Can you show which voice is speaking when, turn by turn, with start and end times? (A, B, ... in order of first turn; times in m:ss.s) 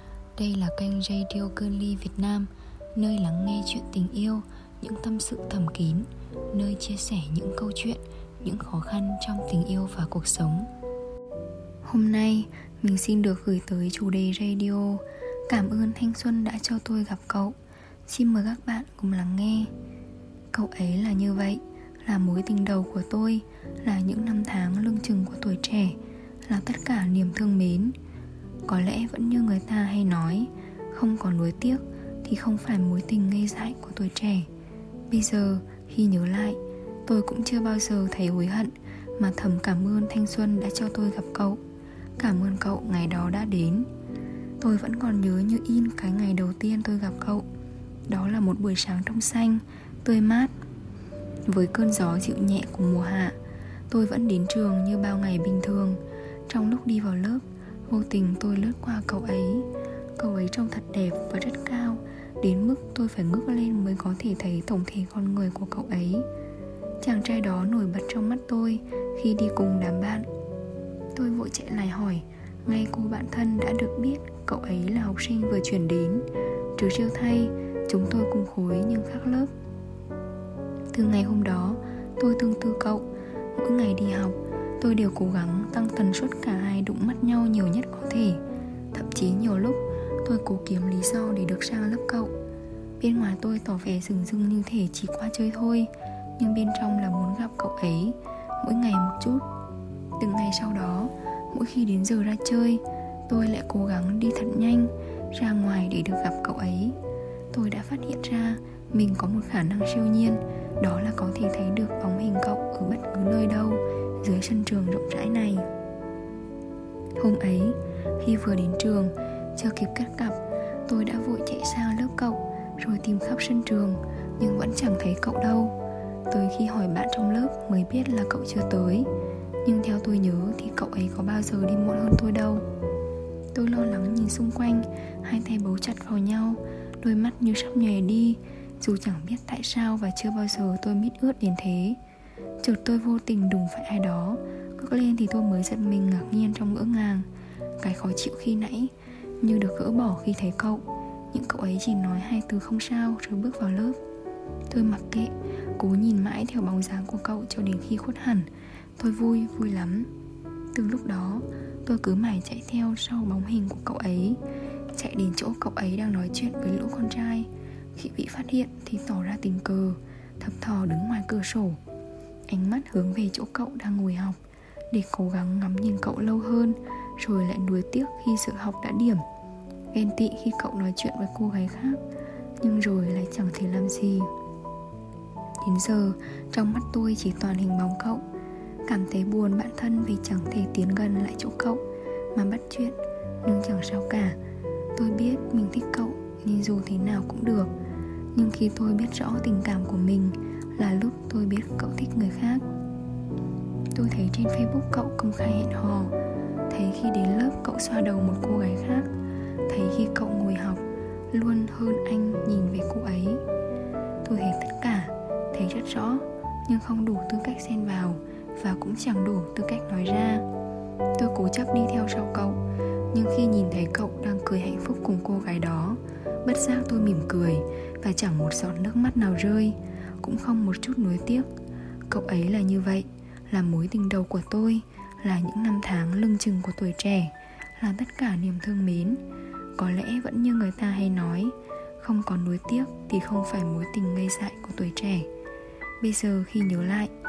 0:00.4-0:10.7 A
0:11.8-0:19.7 A
0:20.5-0:28.0 A
0:28.6-0:34.5 A
0:35.1-0:41.6 A
0:42.2-0:43.9 A
0:44.6-0:47.4 A
0:48.1-0:50.5 A
0:51.5-0:53.4 A
0:53.9-1:06.2 A
1:07.0-1:10.3 A
1:11.1-1:19.5 A
1:20.9-1:28.4 A
1:28.9-1:32.3 A
1:33.0-1:39.4 A
1:40.2-1:47.0 A
1:47.5-1:55.6 A
1:57.2-2:05.7 A
2:06.3-2:09.1 A
2:09.6-2:12.6 A
2:13.5-2:22.0 A
2:22.6-2:27.2 A
2:27.8-2:34.0 A
2:34.7-2:40.1 A
2:40.7-2:44.4 A
2:44.9-2:51.8 A
2:52.5-2:54.4 A
2:54.9-2:59.2 A
2:59.9-3:02.0 A
3:02.6-3:04.3 A
3:05.6-3:08.2 A
3:08.8-3:11.8 A
3:12.3-3:14.4 A
3:15.0-3:17.7 A
3:18.3-3:22.6 A
3:23.9-3:26.1 A
3:26.7-3:29.1 A
3:29.7-3:33.4 A
3:34.2-3:40.4 A
3:41.2-3:42.6 A
3:43.1-3:51.5 A
3:52.1-3:59.2 A
3:59.8-4:05.3 A
4:06.0-4:07.1 A